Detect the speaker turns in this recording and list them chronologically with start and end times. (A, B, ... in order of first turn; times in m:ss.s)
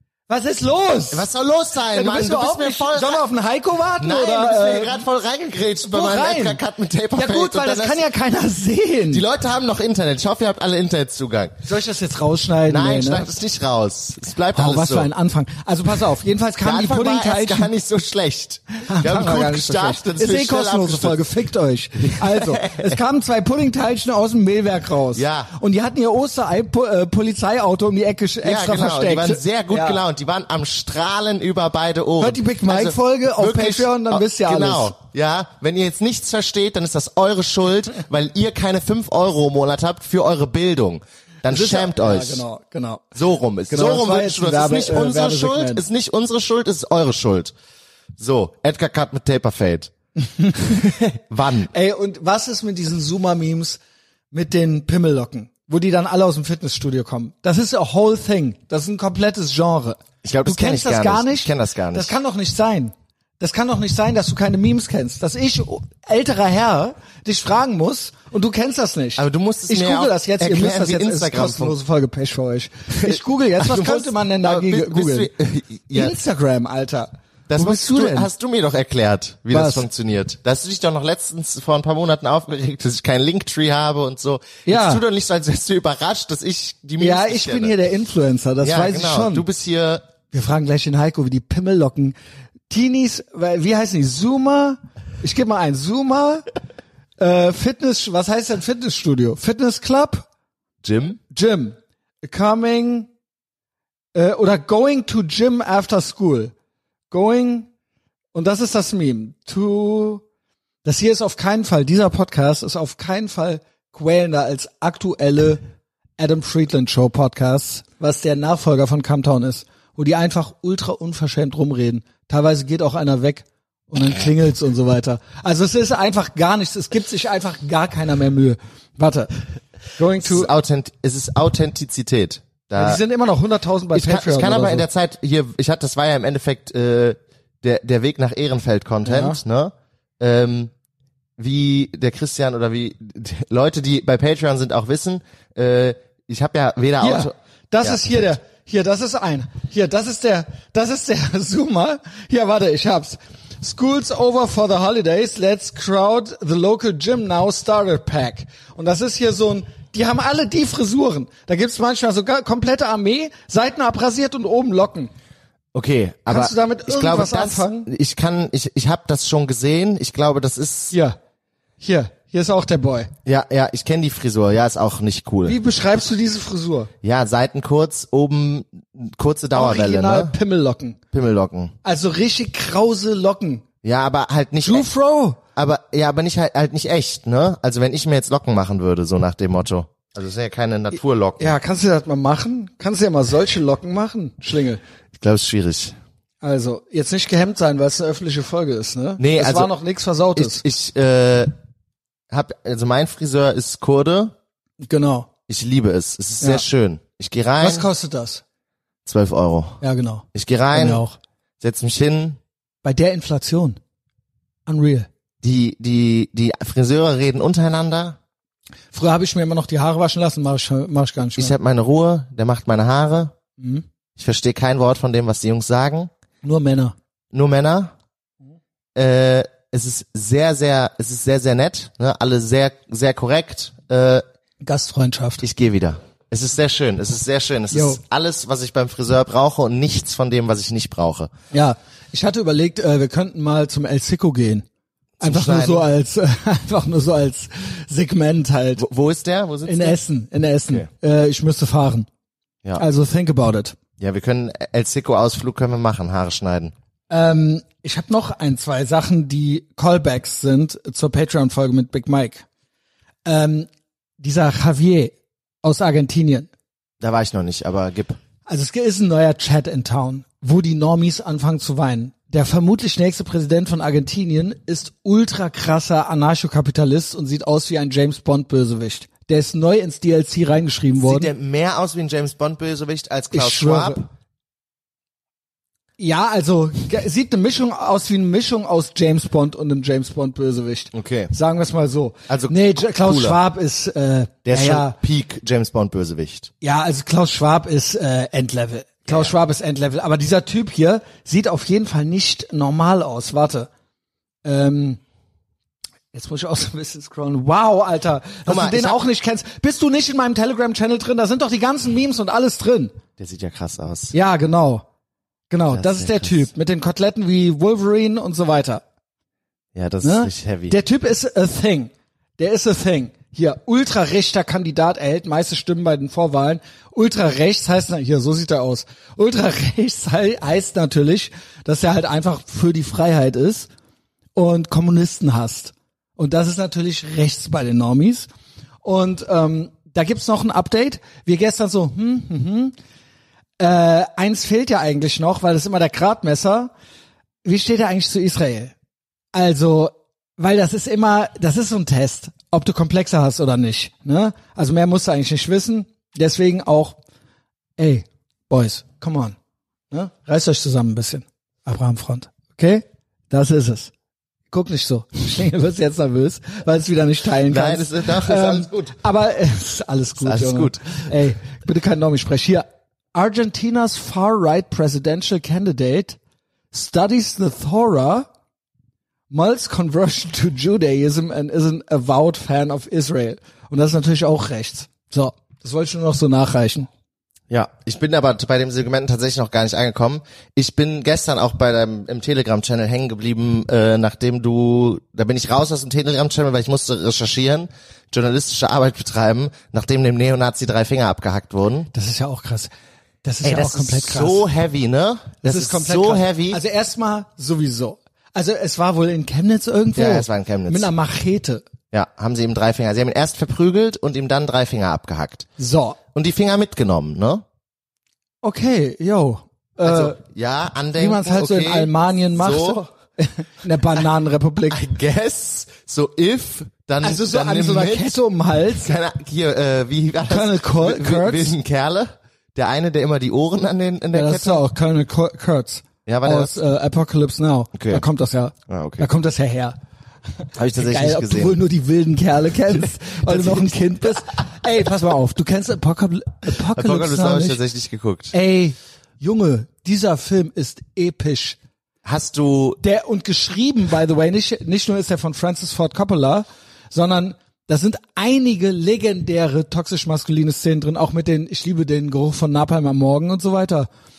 0:00.3-0:01.3 A
0:01.1-0:03.3 B
0:01.9-0:05.0 A
0:04.0-0:08.0 B
0:05.8-0:06.6 A
0:07.2-0:09.2 A
0:09.1-0:11.6 B
0:11.6-0:13.3 A
0:12.7-0:15.1 B
0:14.5-0:17.7 A
0:16.6-0:21.3 B
0:18.9-0:30.0 A
0:22.0-0:23.0 B
0:25.1-0:25.5 B
0:28.4-0:42.4 B
0:32.2-0:35.0 A
0:41.5-0:43.1 A
0:43.2-0:47.5 B
0:43.7-0:45.8 A
0:48.2-0:49.9 B
0:50.3-0:50.9 A
0:50.6-0:51.7 B
0:51.7-0:53.8 A
0:54.3-1:15.3 A
1:00.2-1:02.1 B
1:09.2-1:11.8 B
1:12.9-1:16.2 B
1:15.9-1:18.3 A
1:17.5-1:27.8 B
1:19.5-1:19.8 A
1:24.7-1:25.0 A
1:27.0-1:29.4 A
1:28.6-1:30.0 B
1:30.3-1:32.2 A
1:32.7-1:36.5 A
1:37.2-1:40.3 A
1:40.8-1:41.2 B
1:41.3-1:43.1 A
1:44.2-1:46.5 A
1:47.1-1:47.7 A
1:48.3-1:50.2 A
1:50.8-1:55.6 A
1:56.2-2:09.4 A
2:09.9-2:10.5 A
2:10.2-2:13.0 B
2:12.8-2:14.9 A
2:13.9-2:20.7 B
2:19.0-2:19.4 A
2:21.4-2:28.3 B
2:27.0-2:45.1 A
2:45.7-2:50.9 B
2:46.3-2:47.9 A
2:50.9-2:51.2 A
2:51.8-2:53.1 A
2:53.2-2:55.6 B
2:55.5-2:56.9 A
2:57.0-3:00.3 B
2:59.6-3:01.0 A
3:01.1-3:01.7 B
3:01.8-3:03.6 A
3:03.8-3:04.9 B
3:04.6-3:05.4 A
3:05.6-3:11.5 B
3:11.4-3:14.8 A
3:15.2-3:16.0 B
3:16.4-3:20.6 A
3:19.2-3:19.7 B
3:20.4-3:21.5 B
3:22.3-3:24.4 B
3:24.8-3:25.3 A
3:25.5-3:27.9 B
3:26.4-3:26.6 A
3:27.6-3:28.4 A
3:29.0-3:29.8 B
3:29.8-3:31.2 A
3:30.3-3:31.0 B
3:31.6-3:32.4 B
3:32.8-3:33.8 A
3:34.7-3:35.1 A
3:35.4-3:38.2 B
3:38.9-3:41.6 A
3:41.4-3:43.3 B
3:43.6-3:43.8 A
3:44.2-3:46.1 B
3:46.4-3:47.0 A
3:47.3-3:47.9 B
3:49.0-3:54.2 B
3:54.6-3:55.4 A
3:55.4-4:01.3 B
3:57.7-3:58.0 A
4:01.5-4:04.7 A
4:05.2-4:05.9 B
4:05.2-4:08.8 A
4:08.8-4:10.0 B
4:09.7-4:12.1 A
4:12.8-4:13.8 A
4:14.0-4:16.7 B
4:17.1-4:22.4 A
4:23.2-4:26.5 A
4:27.0-4:28.2 B
4:28.5-4:41.3 A
4:41.0-4:44.1 B
4:43.3-4:44.0 A
4:46.0-4:55.0 A
4:50.9-4:51.3 B
4:52.3-4:53.4 B
4:54.4-4:56.5 B
4:56.6-5:03.7 A
4:59.1-4:59.3 B
5:04.4-5:05.0 A
5:06.1-5:13.0 A
5:08.5-5:09.0 B
5:13.2-5:14.1 B
5:14.1-5:14.8 A
5:15.5-5:18.8 A
5:15.7-5:16.5 B
5:19.8-5:20.8 B
5:20.0-5:33.7 A
5:34.4-5:38.3 A
5:38.8-5:42.8 A
5:43.6-5:46.7 A
5:47.4-5:48.7 A
5:49.3-5:57.0 A
5:57.8-5:59.4 A
5:59.9-6:03.9 A
6:04.5-6:16.2 A
6:07.4-6:09.0 B
6:10.2-6:11.0 B
6:16.7-6:18.3 A
6:19.3-6:26.9 A
6:27.5-6:41.9 B
6:41.9-6:42.7 A
6:43.2-6:44.4 A
6:43.4-6:46.6 B
6:45.4-6:51.6 A
6:50.0-6:50.9 B
6:51.9-6:55.5 B
6:55.6-6:56.0 A
6:56.1-6:57.4 B
6:58.4-7:00.2 A
6:59.8-7:02.8 B
7:01.0-7:04.8 A
7:04.7-7:08.2 B
7:07.0-7:08.9 A
7:08.7-7:14.6 B
7:10.3-7:11.5 A
7:14.1-7:19.8 A
7:16.1-7:16.6 B
7:17.8-7:18.0 B
7:18.7-7:19.1 B
7:20.6-7:21.6 B
7:20.7-7:27.6 A
7:22.7-7:23.8 B
7:26.5-7:28.3 B
7:28.3-7:31.6 A
7:32.0-7:32.8 B
7:32.8-7:43.9 A